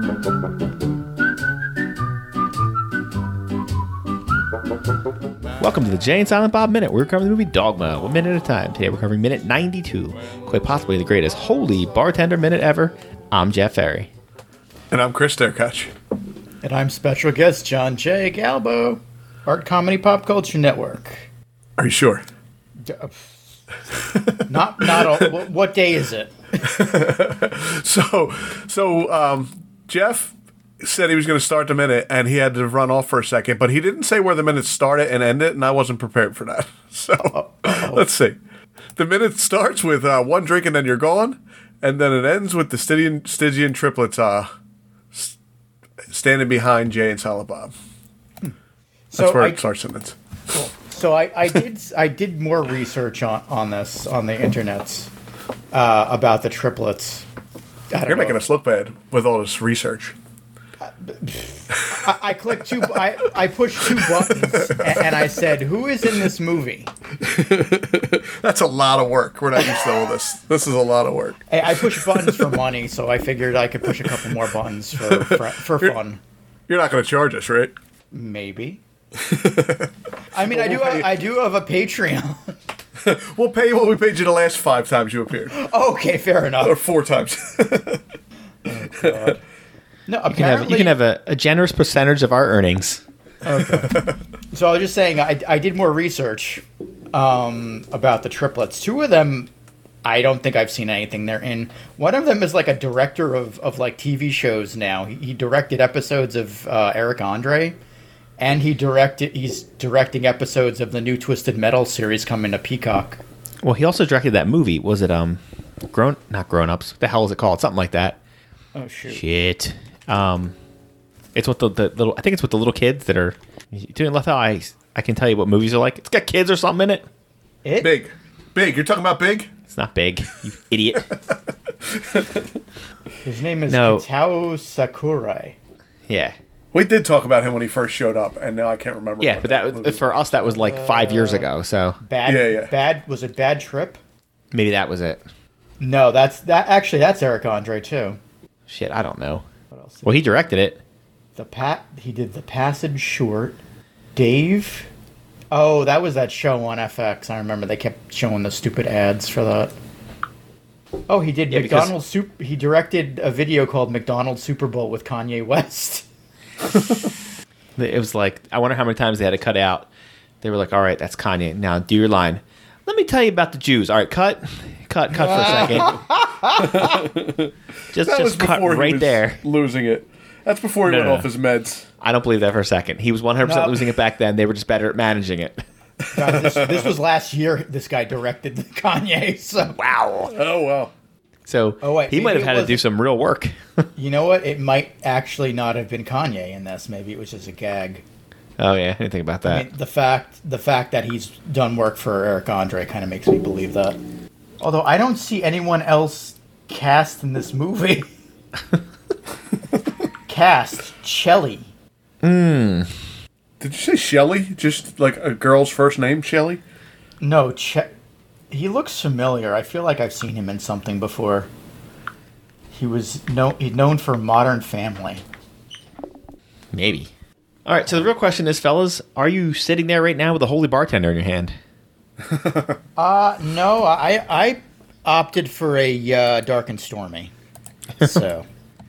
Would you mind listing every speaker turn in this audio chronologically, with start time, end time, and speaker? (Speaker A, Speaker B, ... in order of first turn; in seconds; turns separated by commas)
Speaker A: 5.6-14.1, Speaker B: 14.9-15.9, Speaker C: 16.6-21.3, Speaker B: 21.8-22.2, Speaker C: 22.8-23.4, Speaker C: 24.5-26.8, Speaker B: 26.8-37.2, Speaker C: 37.3-38.1, Speaker B: 37.8-38.4, Speaker B: 39.0-44.5, Speaker B: 46.1-47.7, Speaker C: 49.1-49.6, Speaker B: 49.2-50.1, Speaker C: 50.5-55.1, Speaker C: 55.7-57.3, Speaker C: 57.9-58.4, Speaker B: 58.1-60.1, Speaker C: 60.8-66.9, Speaker B: 67.3-71.2, Speaker C: 71.5-76.2, Speaker B: 75.0-75.4, Speaker B: 76.7-77.7, Speaker C: 78.1-78.8, Speaker B: 79.3-79.7, Speaker C: 80.3-82.6, Speaker B: 80.5-81.0, Speaker B: 83.1-85.5, Speaker C: 85.5-86.8, Speaker B: 86.6-88.0, Speaker C: 88.7-89.4, Speaker C: 90.1-91.0, Speaker A: 90.3-93.0, Speaker C: 93.4-99.5, Speaker C: 100.0-107.8, Speaker C: 108.4-113.2, Speaker A: 113.6-115.4, Speaker A: 115.9-118.2, Speaker C: 118.8-119.2, Speaker A: 119.1-120.5, Speaker A: 121.3-127.0, Speaker C: 127.6-128.0, Speaker B: 127.8-129.5, Speaker A: 129.7-131.1, Speaker C: 133.2-135.6, Speaker A: 133.7-134.1, Speaker A: 136.1-136.4, Speaker B: 136.8-139.9, Speaker A: 139.2-142.0, Speaker C: 140.5-141.5, Speaker C: 142.0-144.0, Speaker B: 142.3-142.7, Speaker A: 144.5-145.2, Speaker C: 145.8-148.2, Speaker A: 148.7-149.4, Speaker C: 149.7-150.2, Speaker A: 150.0-150.8, Speaker C: 151.4-153.6, Speaker C: 154.2-154.9, Speaker C: 155.5-159.7, Speaker C: 161.1-166.1, Speaker A: 161.5-161.9, Speaker A: 167.8-169.9, Speaker A: 170.4-176.0, Speaker C: 175.1-177.1, Speaker B: 176.8-177.1, Speaker A: 177.9-179.4, Speaker B: 178.1-181.8, Speaker A: 180.8-181.3, Speaker A: 182.0-185.6, Speaker C: 183.4-183.9, Speaker C: 186.1-189.8, Speaker A: 189.8-190.3, Speaker B: 190.5-190.9, Speaker A: 191.5-193.6, Speaker C: 191.8-192.8, Speaker C: 194.0-198.0, Speaker A: 198.6-199.7, Speaker C: 199.4-204.0, Speaker C: 204.6-208.1, Speaker C: 210.3-211.7, Speaker A: 212.2-212.9, Speaker B: 213.6-216.6, Speaker C: 217.2-217.9, Speaker C: 218.5-221.5, Speaker C: 222.7-225.2, Speaker A: 226.7-227.1, Speaker A: 227.7-231.6, Speaker C: 233.0-237.3, Speaker C: 238.0-238.5